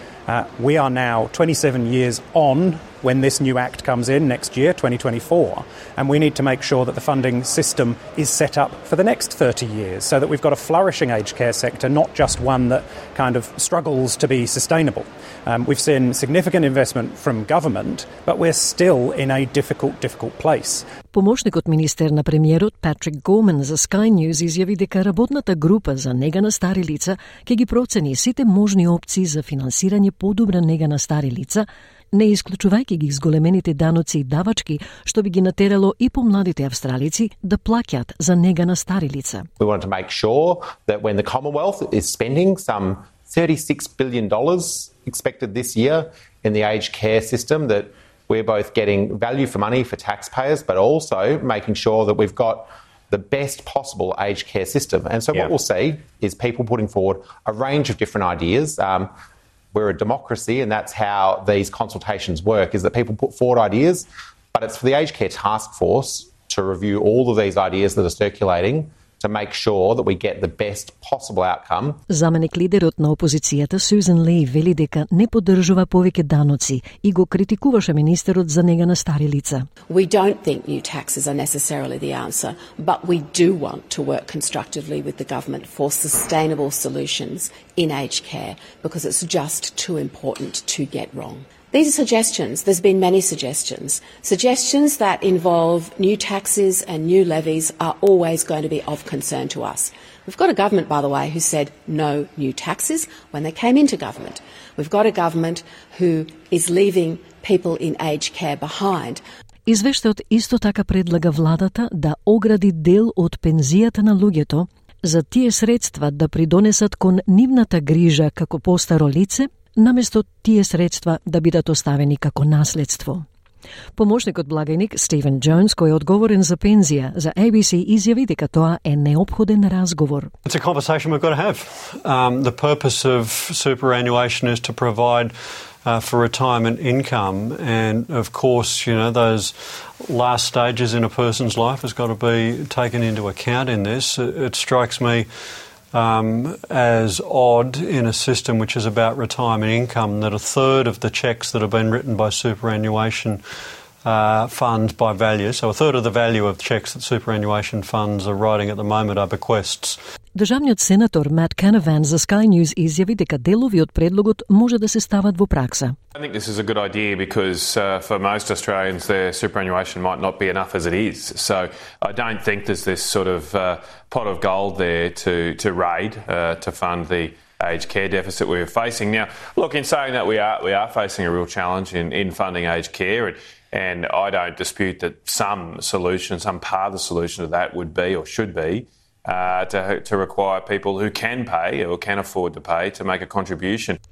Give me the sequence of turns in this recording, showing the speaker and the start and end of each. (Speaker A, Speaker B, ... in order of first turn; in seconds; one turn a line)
Speaker A: 0.3-20.9
Speaker B: 21.1-39.5
Speaker C: 39.6-59.1
Speaker C: 59.7-72.0
Speaker B: 72.1-79.7
Speaker D: 79.9-109.2
Speaker B: 109.7-123.2
Speaker B: 124.0-130.3
Speaker E: 130.5-145.3
Speaker E: 145.9-153.4
Speaker E: 154.0-160.0
Speaker B: 160.3-165.9
Speaker F: 166.2-194.0